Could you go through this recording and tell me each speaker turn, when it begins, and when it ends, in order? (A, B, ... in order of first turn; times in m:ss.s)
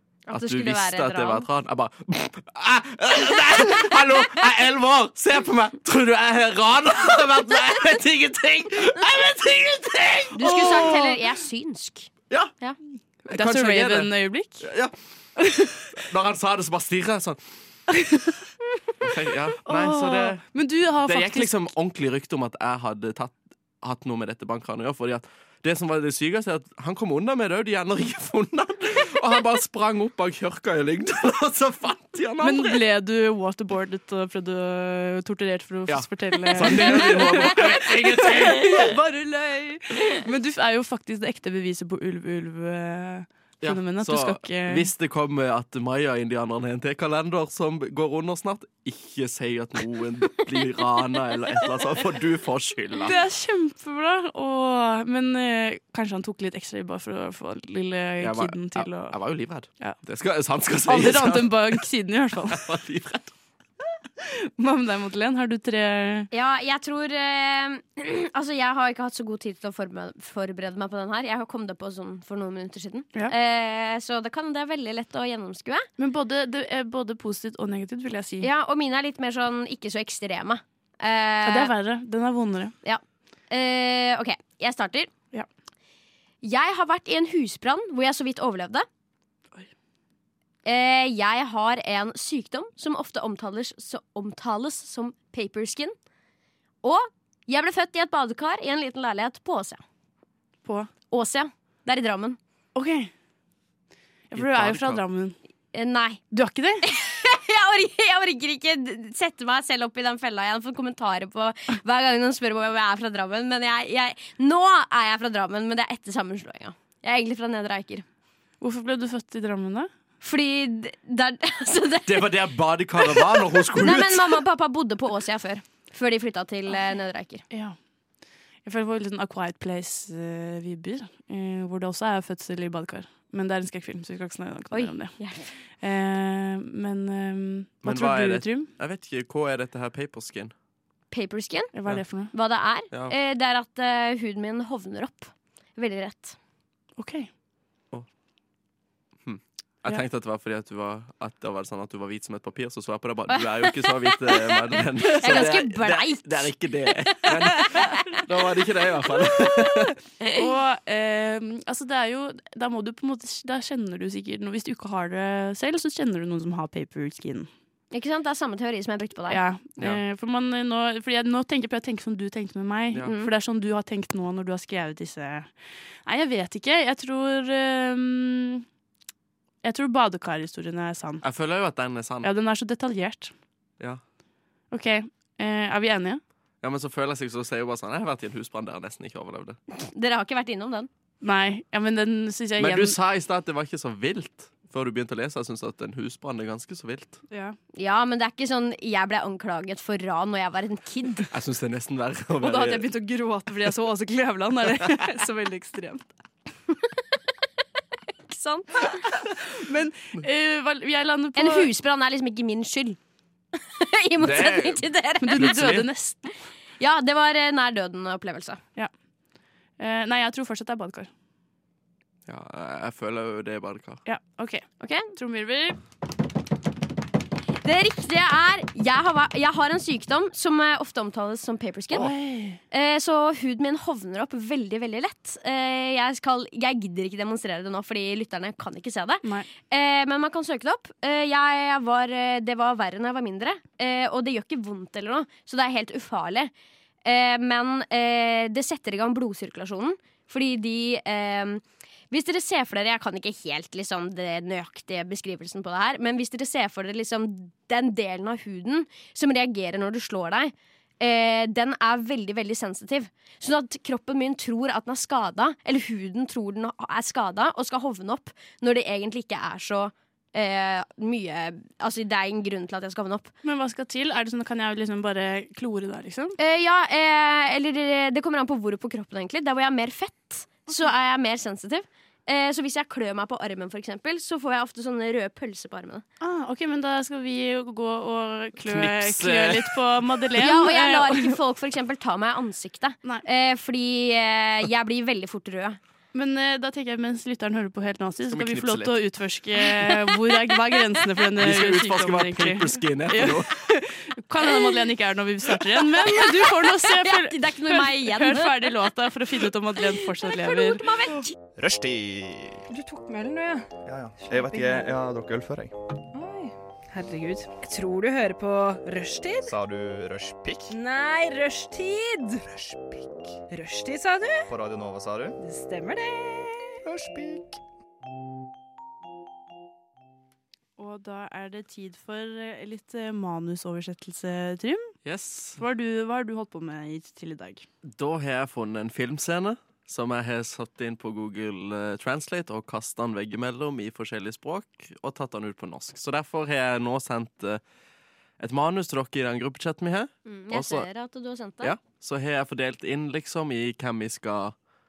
0:00.3-0:01.5 A
0:00.3-0:11.1 B
0:10.4-0:12.8 A
0:10.4-0:11.1 C
0:13.3-0:14.6 C
0:13.3-0:14.9 B
0:15.4-0:15.8 C
0:15.9-0:17.4 B
0:18.0-0:18.4 C
0:19.0-0:20.4 B
0:19.7-0:21.6 C
0:21.0-0:32.8 B
0:32.4-0:44.9 C
0:35.9-0:39.0 B
0:43.6-0:53.2 B
0:53.0-0:59.2 C
0:58.2-1:01.8 B
1:00.9-1:02.7 C
1:02.5-1:03.3 B
1:04.2-1:06.3 C
1:06.3-1:15.9 A
1:16.0-1:18.5 C
1:18.4-1:21.7 A
1:21.4-1:22.8 C
1:22.8-1:25.1 A
1:26.4-1:28.9 A
1:30.6-1:36.0 A
1:36.8-1:39.8 A
1:40.6-1:40.9 C
1:41.1-1:42.4 A
1:42.8-1:43.1 C
1:44.3-1:45.4 C
1:44.3-1:45.0 B
1:45.7-1:46.2 A
1:46.3-1:46.8 C
1:46.8-1:58.0 A
1:58.6-1:59.9 C
2:00.2-2:02.4 A
2:02.1-2:04.4 B
2:03.0-2:07.4 A
2:07.5-2:07.8 C
2:08.6-2:15.3 C
2:14.7-2:15.5 A
2:15.8-2:18.7 C
2:17.8-2:20.5 B
2:21.1-2:21.7 A
2:21.7-2:22.3 C
2:22.3-2:26.4 A
2:27.0-2:27.3 C
2:29.2-2:40.0 B
2:33.3-2:38.0 A
2:40.3-2:47.5 C
2:47.9-2:49.4 A
2:49.3-2:55.5 C
2:53.0-2:53.3 A
2:56.1-2:58.6 C
2:59.6-3:01.2 C
3:01.2-3:02.3 B
3:02.2-3:03.3 C
3:04.7-3:06.2 C
3:06.6-3:09.6 B
3:09.7-3:10.9 A
3:11.2-3:13.0 C
3:12.6-3:17.2 B
3:17.3-3:17.6 C
3:17.7-3:21.3 A
3:21.3-3:22.9 B
3:22.4-3:26.1 C
3:28.3-3:29.0 A
3:29.4-3:31.7 C
3:31.4-3:33.0 A
3:33.6-3:35.6 A
3:34.2-3:35.9 B
3:35.2-3:36.3 C
3:36.8-3:38.6 A
3:39.8-3:41.1 C
3:42.3-3:44.0 B
3:44.0-3:45.8 C
3:44.8-3:45.1 A
3:47.6-3:52.1 A
3:51.9-3:52.6 C
3:52.7-4:06.5 A
3:59.2-3:59.5 C
4:07.0-4:33.3 A
4:33.4-4:36.4 C
4:36.4-4:46.0 A
4:46.2-4:51.4 C
4:48.6-4:50.2 B
4:50.4-4:55.8 A
4:56.1-5:10.9 C
4:58.3-4:59.0 B
4:59.9-5:00.8 A
5:01.4-5:03.6 B
5:06.0-5:08.8 A
5:10.2-5:11.3 A
5:11.6-5:12.6 D
5:12.7-5:13.7 E
5:13.9-5:15.7 D
5:14.2-5:14.9 E
5:16.1-5:19.5 E
5:19.4-5:20.8 D
5:20.7-5:22.4 E
5:22.5-5:23.4 D
5:23.5-5:24.5 E
5:24.5-5:25.4 D
5:25.4-5:26.8 E
5:26.8-5:27.6 D
5:30.8-5:35.0 C
5:35.0-5:35.6 B
5:35.6-5:37.7 C
5:37.8-5:47.6 B
5:48.4-5:50.9 B
5:50.3-5:51.8 A
5:51.6-5:54.6 B